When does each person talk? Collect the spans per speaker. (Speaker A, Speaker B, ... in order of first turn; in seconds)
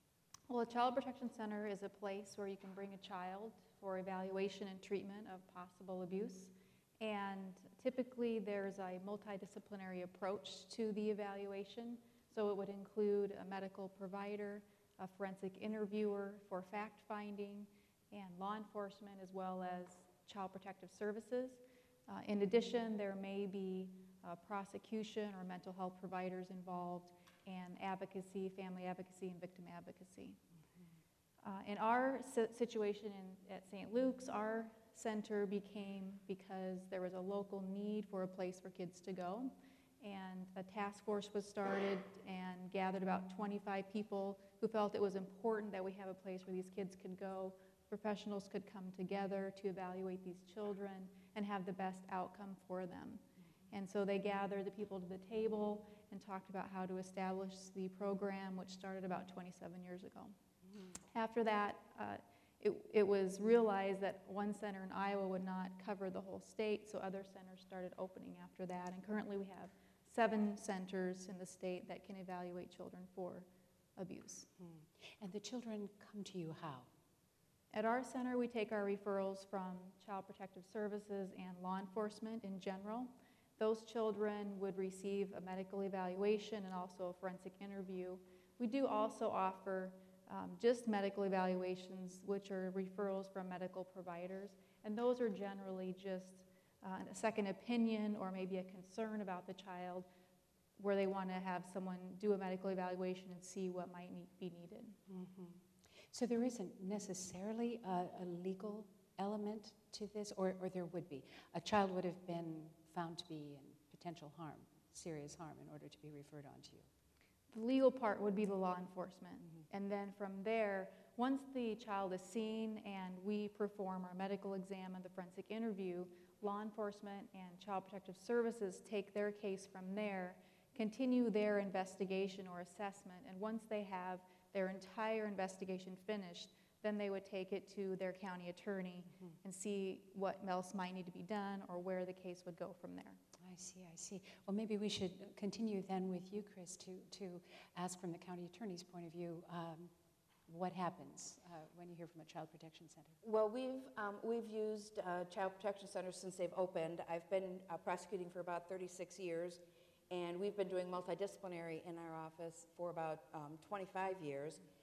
Speaker A: 0.5-30.4, 31.4-60.4, 61.1-74.5, 77.7-100.1, 100.8-105.0, 117.5-143.2
Speaker B: 74.6-76.9, 105.1-116.9, 143.4-149.9, 150.5-153.2
Speaker C: 153.2-164.6